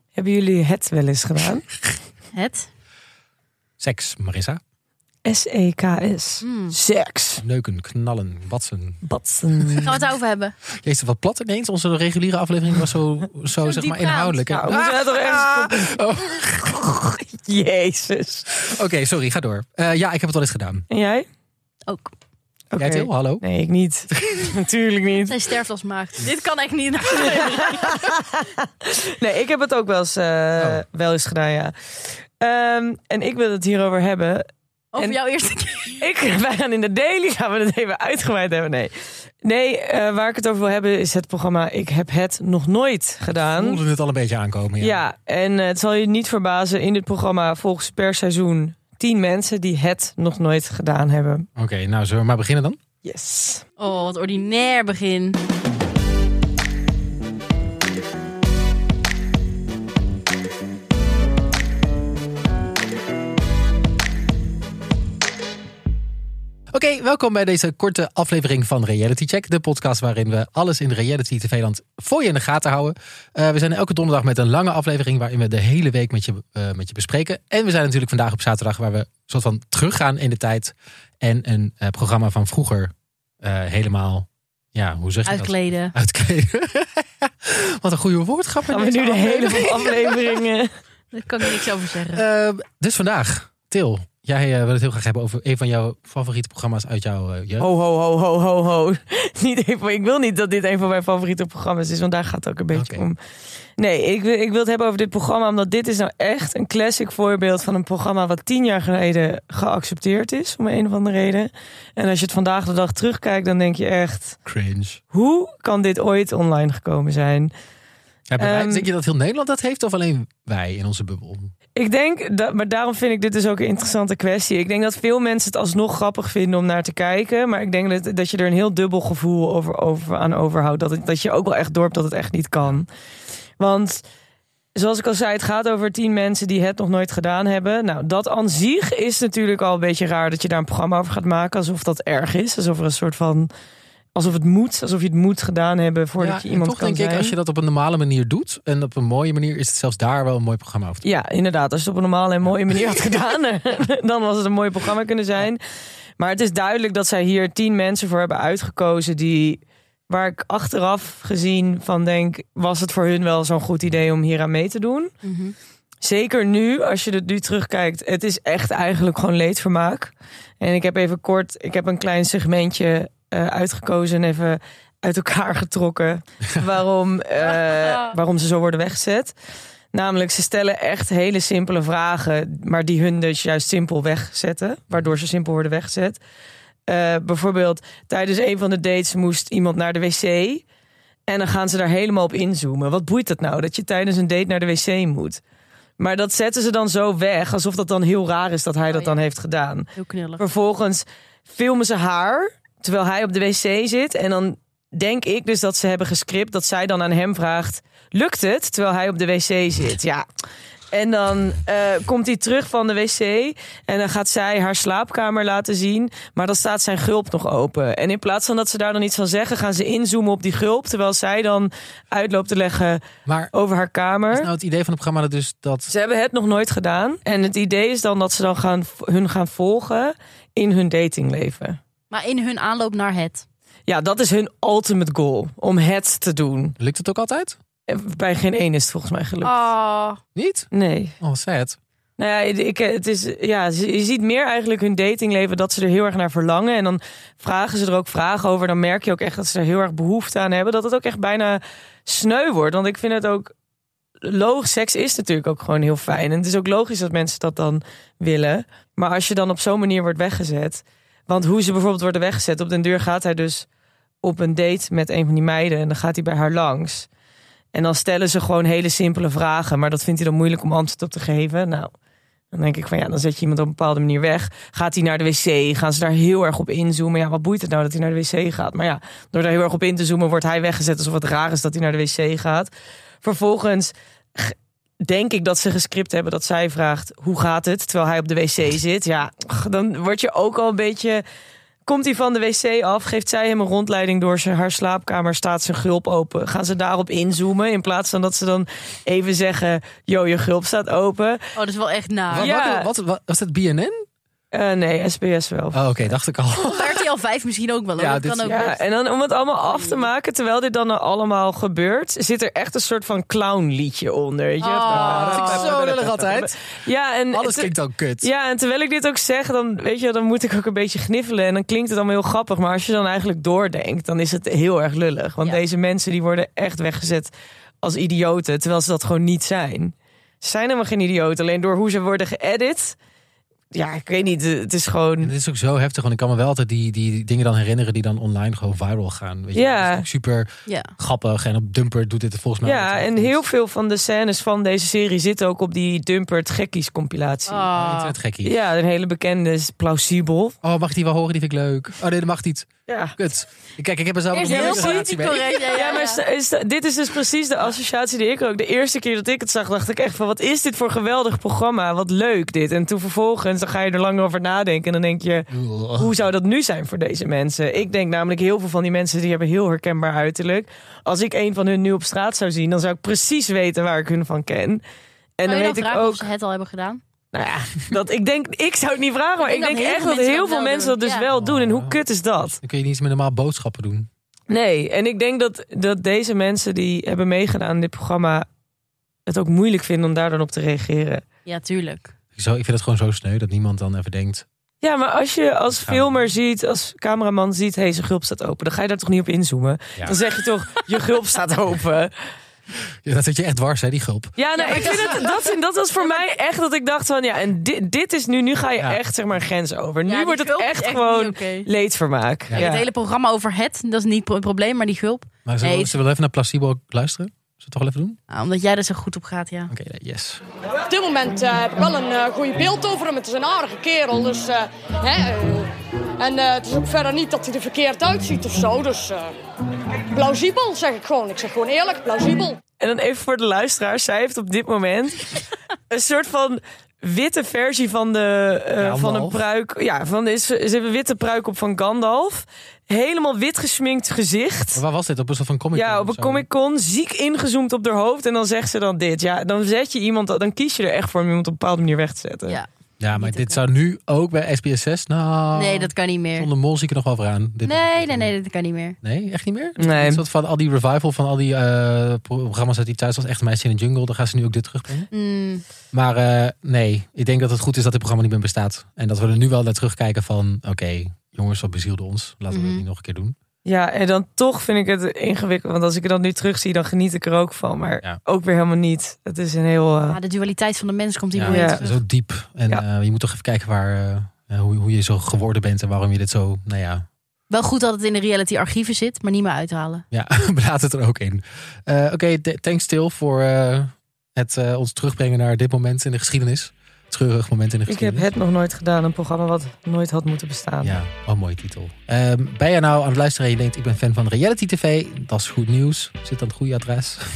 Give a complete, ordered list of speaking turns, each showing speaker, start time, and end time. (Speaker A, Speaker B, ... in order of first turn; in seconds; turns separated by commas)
Speaker A: 0.1-1.7, Speaker B: 2.3-2.7, Speaker C: 3.8-4.6, Speaker A: 5.2-7.4, Speaker B: 6.4-6.8, Speaker C: 7.4-9.0, Speaker A: 9.1-10.0, Speaker C: 9.6-9.9, Speaker B: 9.8-10.6, Speaker C: 10.8-16.9, Speaker B: 13.6-14.8, Speaker A: 14.6-16.0, Speaker A: 17.0-18.6, Speaker C: 18.7-20.9, Speaker A: 20.9-21.2, Speaker B: 21.9-22.1, Speaker A: 22.7-25.4, Speaker C: 22.8-23.4, Speaker B: 25.3-28.0, Speaker A: 27.1-31.7, Speaker A: 32.4-34.5, Speaker B: 34.9-36.0, Speaker A: 35.9-43.8, Speaker C: 43.4-45.0, Speaker A: 44.8-51.5, Speaker C: 51.6-52.8, Speaker A: 53.0-53.6, Speaker B: 53.8-55.4, Speaker C: 66.7-90.2, Speaker B: 85.3-85.9, Speaker A: 88.7-90.7, Speaker B: 91.1-92.2, Speaker C: 92.0-97.7, Speaker A: 97.6-103.2, Speaker C: 102.7-103.1, Speaker A: 103.8-114.4, Speaker C: 114.5-115.0, Speaker A: 115.1-117.5, Speaker C: 118.3-121.5, Speaker A: 118.4-118.9, Speaker A: 121.8-132.9, Speaker A: 133.6-134.0, Speaker A: 134.8-143.5, Speaker A: 144.2-147.3, Speaker C: 146.2-151.1, Speaker A: 151.0-155.6, Speaker A: 156.2-165.1, Speaker B: 165.2-165.6, Speaker A: 166.0-179.3, Speaker B: 177.4-178.1, Speaker A: 179.9-186.2, Speaker A: 186.9-190.6, Speaker A: 191.3-195.4, Speaker A: 196.0-210.2, Speaker B: 200.0-200.4, Speaker A: 210.9-224.5, Speaker C: 223.3-223.5, Speaker C: 224.3-225.9, Speaker A: 225.9-231.8, Speaker B: 232.1-233.4, Speaker A: 233.9-236.8, Speaker C: 236.8-237.6, Speaker A: 237.9-239.7, Speaker B: 239.4-240.2, Speaker C: 240.3-241.8, Speaker A: 240.7-241.2, Speaker A: 242.2-253.5, Speaker A: 254.2-263.7, Speaker A: 264.2-267.1, Speaker A: 267.7-271.9, Speaker A: 272.5-282.7, Speaker A: 283.2-291.2, Speaker A: 291.9-301.4, Speaker B: 301.6-302.5, Speaker C: 302.3-304.0, Speaker A: 302.4-302.9, Speaker A: 304.5-306.1, Speaker C: 305.7-307.1, Speaker B: 306.6-308.8, Speaker C: 308.0-308.6, Speaker A: 308.4-333.0, Speaker B: 309.7-310.1, Speaker B: 314.6-315.7, Speaker C: 314.9-316.6, Speaker C: 317.3-318.3, Speaker A: 333.7-335.3, Speaker C: 335.2-343.4, Speaker A: 339.5-340.1, Speaker A: 342.6-347.7, Speaker B: 347.5-348.1, Speaker C: 347.7-348.6, Speaker A: 348.4-350.6, Speaker C: 350.6-355.5, Speaker A: 352.9-353.2, Speaker B: 354.3-356.2, Speaker A: 354.4-374.8, Speaker C: 365.5-366.1, Speaker A: 375.4-376.3, Speaker B: 375.4-377.0, Speaker A: 377.3-382.6, Speaker B: 379.4-381.2, Speaker C: 381.3-384.1, Speaker A: 384.5-388.5, Speaker A: 389.3-391.2, Speaker B: 391.5-392.1, Speaker C: 392.4-394.5, Speaker A: 394.8-402.1, Speaker C: 395.7-396.1, Speaker C: 403.1-405.1, Speaker A: 404.4-412.9, Speaker B: 404.6-405.4, Speaker B: 410.1-411.7, Speaker B: 412.5-416.0, Speaker C: 415.4-418.2, Speaker B: 418.3-419.7, Speaker C: 419.7-420.4, Speaker D: 420.9-429.4, Speaker D: 430.0-432.6, Speaker A: 432.8-444.8, Speaker C: 438.8-439.4, Speaker C: 444.8-446.5, Speaker A: 445.7-452.6, Speaker B: 452.5-453.6, Speaker C: 453.0-458.3, Speaker B: 455.6-456.5, Speaker B: 457.6-459.0, Speaker C: 459.0-465.1, Speaker A: 459.8-460.2, Speaker B: 465.1-465.6, Speaker C: 465.9-473.3, Speaker B: 472.5-472.8, Speaker A: 473.6-480.2, Speaker B: 480.1-482.0, Speaker C: 481.3-487.1, Speaker A: 481.4-481.8, Speaker B: 487.5-490.0, Speaker C: 490.1-498.3, Speaker A: 497.9-501.0, Speaker C: 500.8-507.2